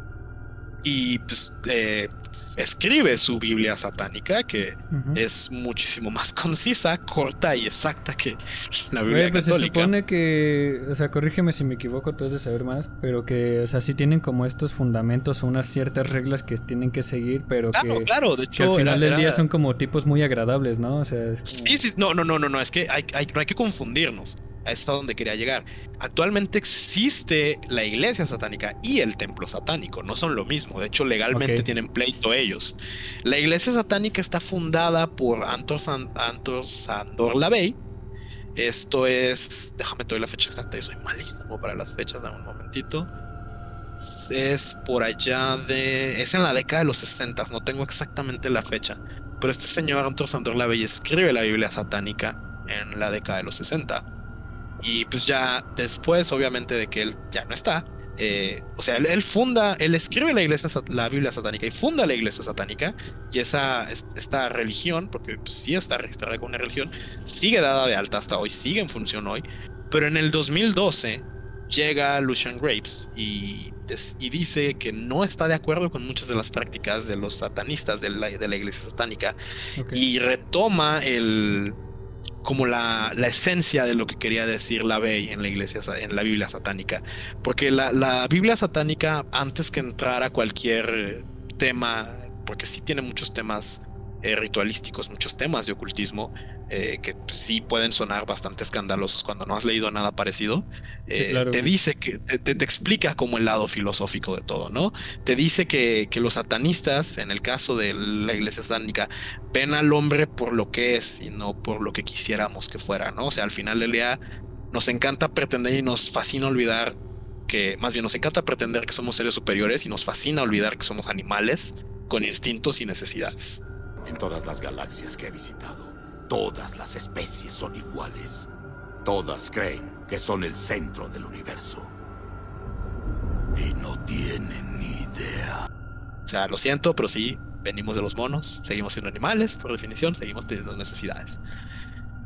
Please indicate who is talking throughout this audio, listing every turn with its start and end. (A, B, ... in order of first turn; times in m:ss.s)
0:00.8-0:09.9 A
0:04.9-0:05.2 B
0:09.1-0:21.8 B
0:17.7-0:19.4 A
0:21.5-0:37.8 A
0:31.3-0:31.7 B
0:38.6-0:43.1 A
0:44.0-0:54.1 A
0:54.8-1:19.4 A
1:19.8-1:20.0 B
1:19.9-1:21.8 A
1:22.4-1:54.2 A
1:41.1-1:41.7 B
1:54.7-2:03.6 A
2:04.0-2:08.5 C
2:09.0-2:11.9 C
2:13.5-2:15.7 C
2:16.3-2:21.4 A